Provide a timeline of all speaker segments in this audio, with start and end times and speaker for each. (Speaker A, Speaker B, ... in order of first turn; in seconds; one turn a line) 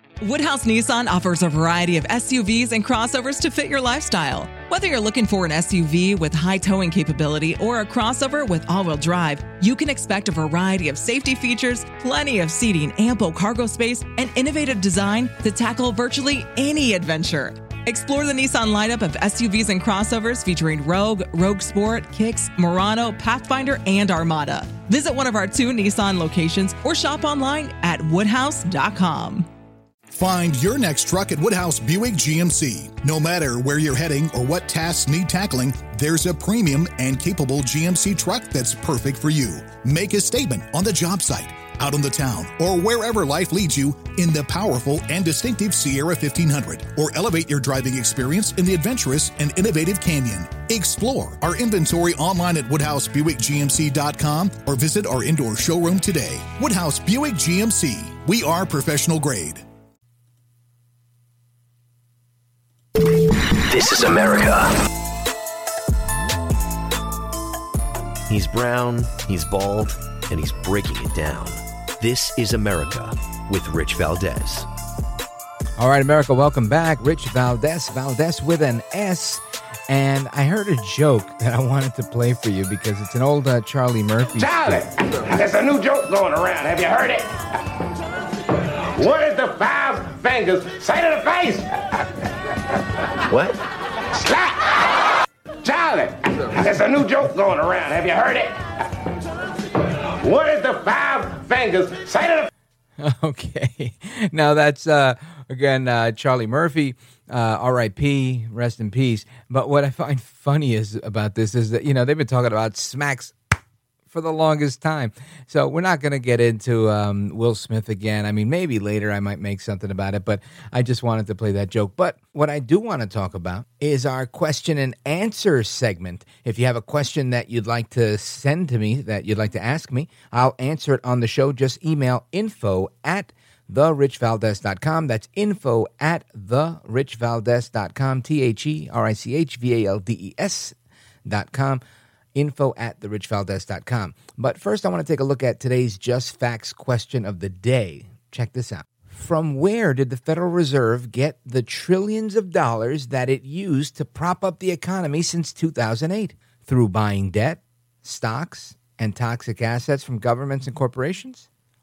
Speaker A: 0.2-29.5
Speaker B: 30.1-59.6
Speaker C: 63.0-64.7
Speaker D: 68.3-74.7
Speaker E: 75.8-84.8
Speaker C: 84.4-87.3
Speaker C: 89.0-91.7
Speaker D: 93.3-93.6
Speaker C: 94.1-94.8
Speaker C: 95.6-98.6
Speaker C: 100.2-102.5
Speaker E: 103.0-113.3
Speaker E: 114.1-140.8
Speaker E: 141.3-141.8
Speaker E: 142.3-161.5